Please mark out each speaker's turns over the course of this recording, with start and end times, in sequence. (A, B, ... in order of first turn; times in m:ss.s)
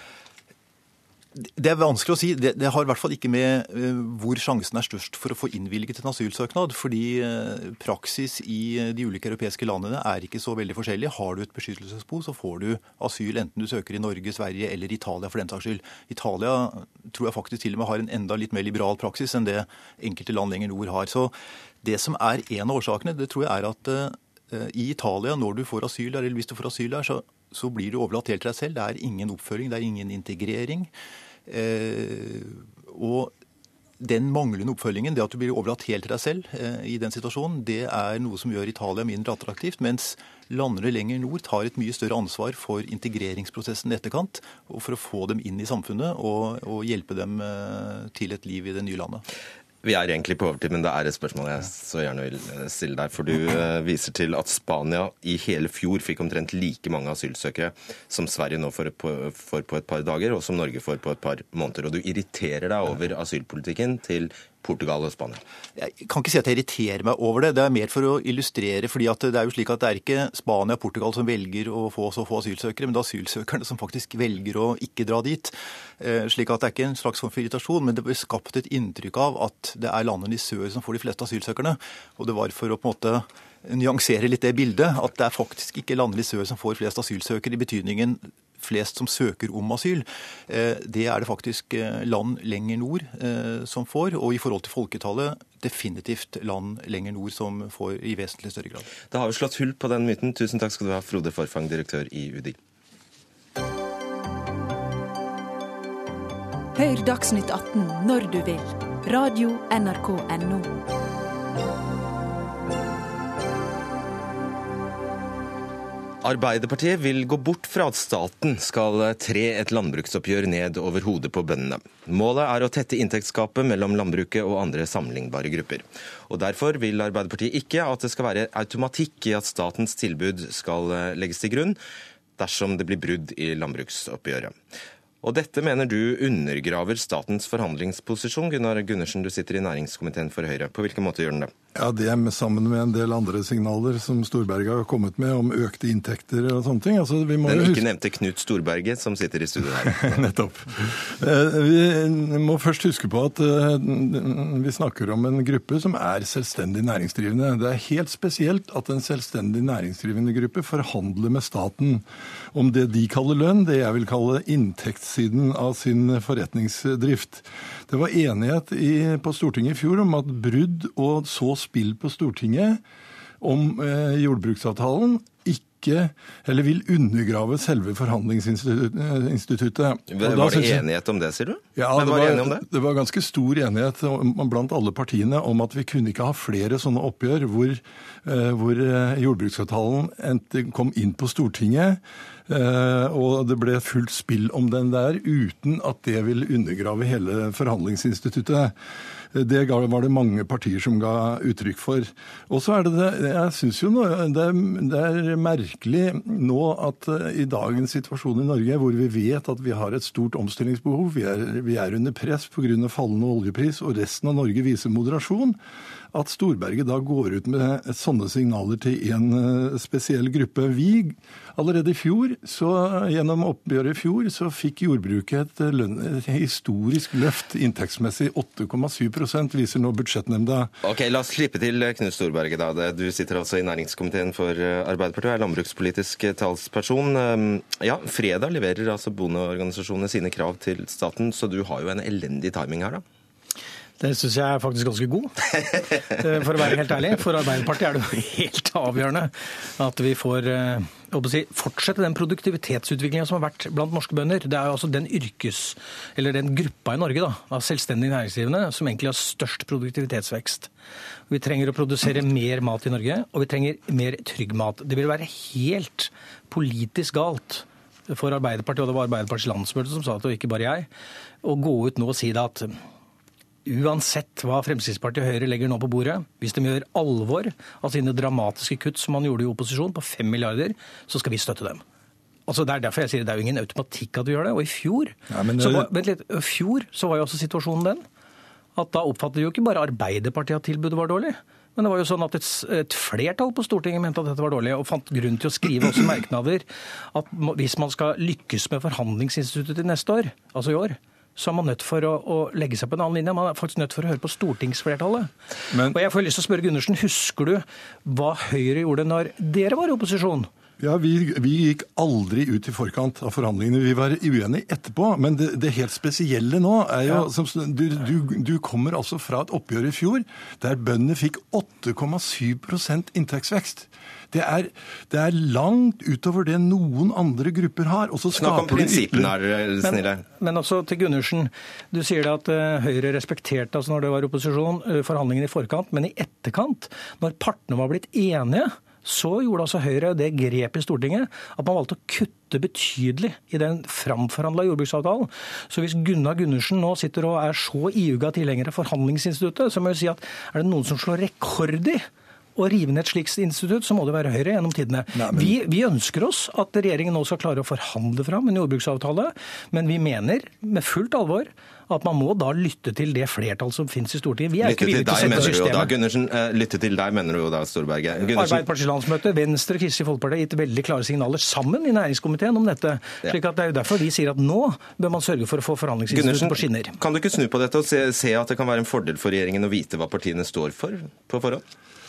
0:01.4-0:30.9 A
0:31.5-0:33.3 A
0:34.0-0:49.2 A
0:49.8-1:05.4 B
1:05.8-1:38.9 A
1:39.1-1:42.6 B
1:46.8-1:50.7 C
1:56.2-2:11.8 B
2:12.4-2:14.6 B
2:15.2-2:21.5 B
2:21.8-2:27.9 D
2:27.4-2:30.2 B
2:29.8-2:52.8 D
2:53.4-3:00.8 D
3:00.1-3:02.7 B
3:01.8-3:18.8 D
3:19.3-3:35.6 D
3:36.1-3:50.7 D
3:50.8-4:03.0 B
4:04.0-4:05.4 E
4:06.2-4:20.7 E
4:21.3-4:30.9 E
4:31.4-4:32.8 E
4:33.7-4:41.8 E
4:42.5-4:48.0 E
4:45.3-4:45.9 D
4:48.8-5:10.5 E
5:05.7-5:06.0 D
5:10.8-5:29.4 D
5:28.3-5:30.2 B
5:29.8-5:52.0 E
5:52.6-6:05.9 E
5:55.1-5:55.6 D
6:04.6-6:08.6 B
6:05.1-6:05.8 D
6:08.3-6:17.0 E
6:16.1-6:21.7 B